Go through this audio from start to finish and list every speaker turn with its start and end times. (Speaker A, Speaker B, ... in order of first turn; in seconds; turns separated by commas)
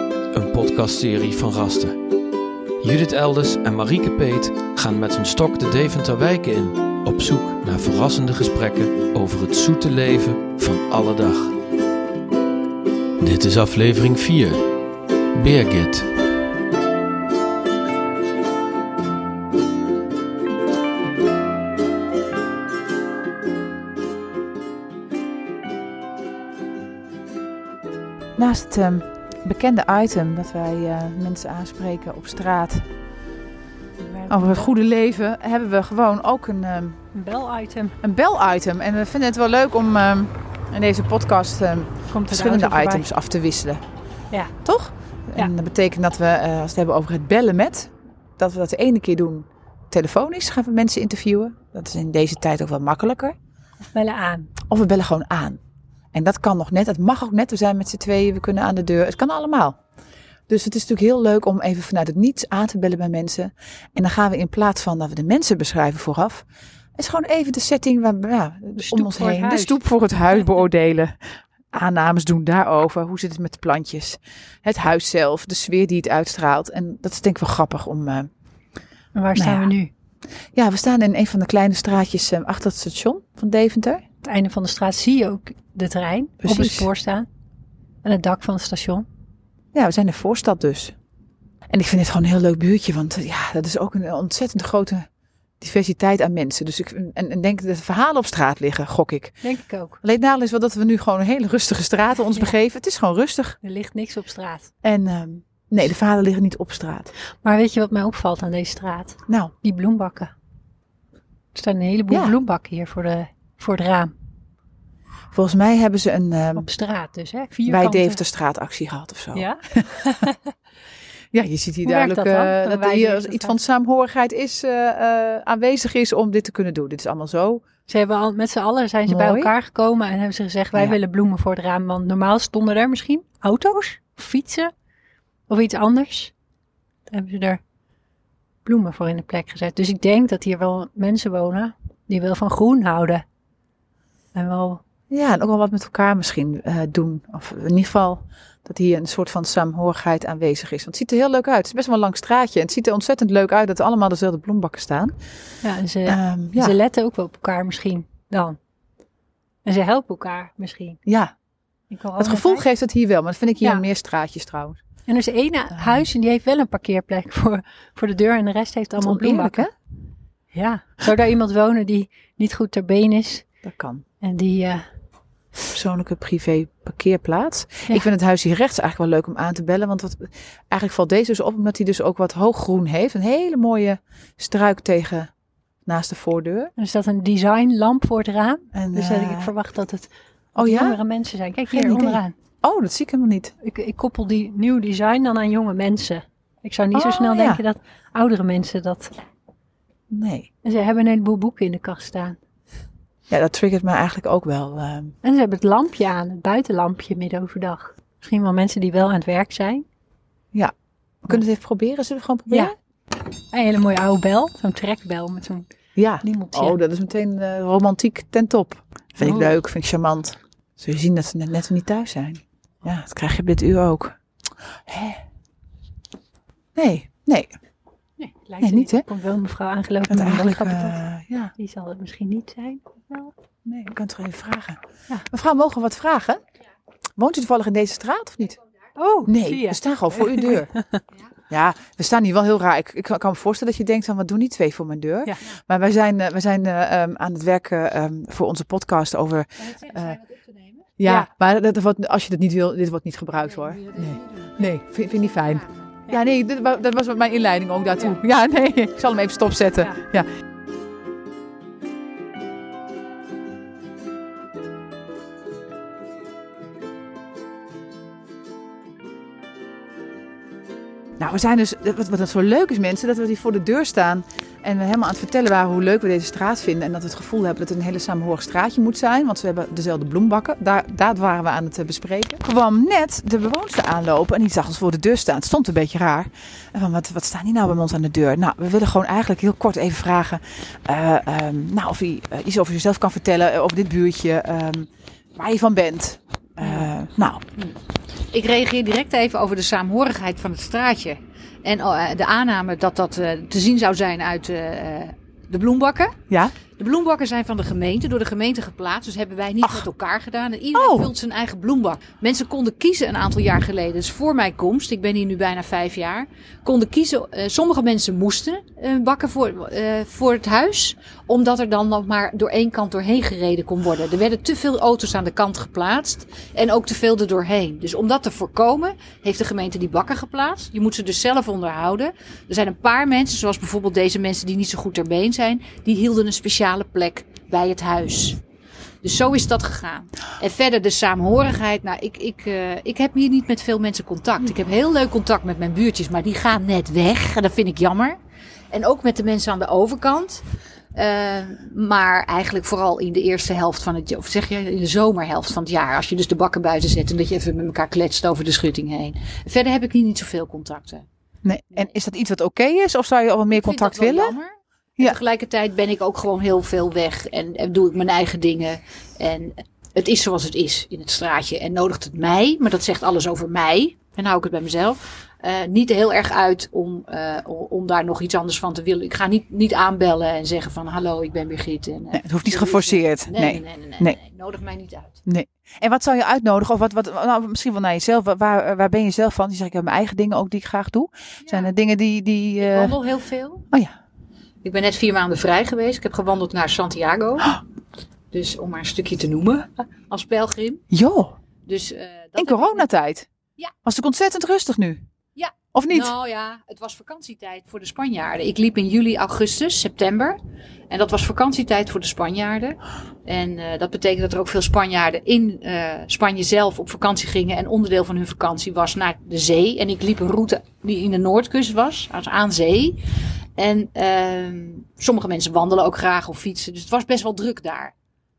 Speaker A: 0.3-2.0, Speaker A: 2.8-11.6, Speaker A: 13.2-14.7, Speaker A: 15.3-16.1, Speaker B: 28.4-32.9, Speaker C: 34.0-34.7, Speaker B: 34.3-37.0, Speaker C: 37.1-38.0, Speaker B: 38.0-43.8, Speaker C: 42.1-43.1, Speaker C: 44.3-44.6, Speaker B: 44.6-53.3, Speaker C: 53.9-54.5, Speaker B: 54.7-55.6, Speaker B: 56.1-59.8, Speaker B: 60.5-66.4, Speaker B: 67.0-78.3, Speaker C: 68.8-69.8, Speaker C: 79.1-79.9, Speaker B: 79.3-79.7, Speaker B: 80.5-84.0, Speaker C: 84.2-87.3, Speaker B: 86.4-86.9, Speaker C: 88.0-89.0, Speaker B: 89.7-91.0, Speaker B: 91.7-95.1, Speaker B: 95.6-99.4, Speaker C: 99.4-100.0, Speaker B: 100.0-103.6, Speaker C: 103.6-104.7, Speaker B: 104.8-107.1, Speaker C: 107.4-110.3, Speaker B: 109.3-109.5, Speaker C: 111.5-114.1, Speaker B: 112.1-112.3, Speaker B: 115.3-116.7, Speaker C: 116.5-118.2, Speaker B: 117.7-119.9, Speaker C: 119.3-120.4, Speaker B: 121.3-127.6, Speaker C: 121.8-123.6, Speaker C: 127.9-134.7, Speaker B: 129.1-129.5, Speaker C: 135.5-136.3, Speaker C: 137.1-137.6, Speaker C: 138.6-143.2, Speaker C: 144.3-144.8, Speaker B: 145.1-155.2, Speaker C: 155.6-158.6, Speaker B: 156.1-156.7, Speaker C: 159.6-161.0, Speaker B: 161.1-161.3, Speaker C: 161.9-162.7, Speaker B: 162.2-164.8, Speaker C: 165.1-169.7, Speaker B: 165.7-166.1, Speaker B: 169.0-169.7, Speaker C: 170.5-173.4, Speaker B: 173.6-174.0, Speaker C: 174.2-174.8, Speaker B: 175.7-185.3, Speaker B: 185.8-186.7, Speaker C: 186.8-192.3, Speaker B: 188.7-189.5, Speaker B: 190.5-191.0, Speaker B: 191.7-193.5, Speaker C: 193.6-199.1, Speaker B: 196.9-197.6, Speaker B: 200.1-200.5, Speaker C: 200.6-202.4, Speaker B: 203.3-205.1, Speaker C: 205.2-209.8, Speaker B: 210.5-212.7, Speaker C: 212.5-212.7, Speaker C: 213.5-215.7, Speaker B: 215.9-224.2, Speaker C: 216.2-216.8, Speaker C: 219.2-219.5, Speaker B: 224.8-225.2, Speaker B: 226.7-227.5, Speaker C: 228.2-231.0, Speaker B: 228.6-229.0, Speaker B: 230.1-231.5, Speaker C: 231.6-233.3, Speaker B: 233.6-236.4, Speaker B: 237.2-238.6, Speaker C: 238.9-241.0, Speaker B: 239.2-240.7, Speaker B: 241.5-250.2, Speaker D: 249.6-250.9, Speaker B: 251.0-260.3, Speaker C: 251.0-251.3, Speaker D: 253.5-254.5, Speaker D: 255.2-255.7, Speaker B: 271.2-297.4, Speaker D: 298.3-306.2, Speaker B: 306.3-306.5, Speaker D: 306.8-338.4, Speaker B: 310.7-311.1, Speaker D: 339.0-348.2, Speaker D: 348.7-350.4, Speaker D: 350.9-361.0, Speaker B: 361.4-364.4, Speaker D: 363.5-385.2, Speaker B: 382.1-384.2, Speaker B: 385.2-393.0, Speaker D: 391.4-391.7, Speaker D: 392.6-393.6, Speaker D: 394.6-397.6, Speaker D: 398.3-400.8, Speaker B: 400.9-401.4, Speaker D: 401.6-402.9, Speaker B: 402.4-403.3, Speaker B: 403.8-405.0, Speaker D: 405.4-410.4, Speaker B: 405.7-406.1, Speaker D: 410.9-423.0, Speaker D: 423.6-427.9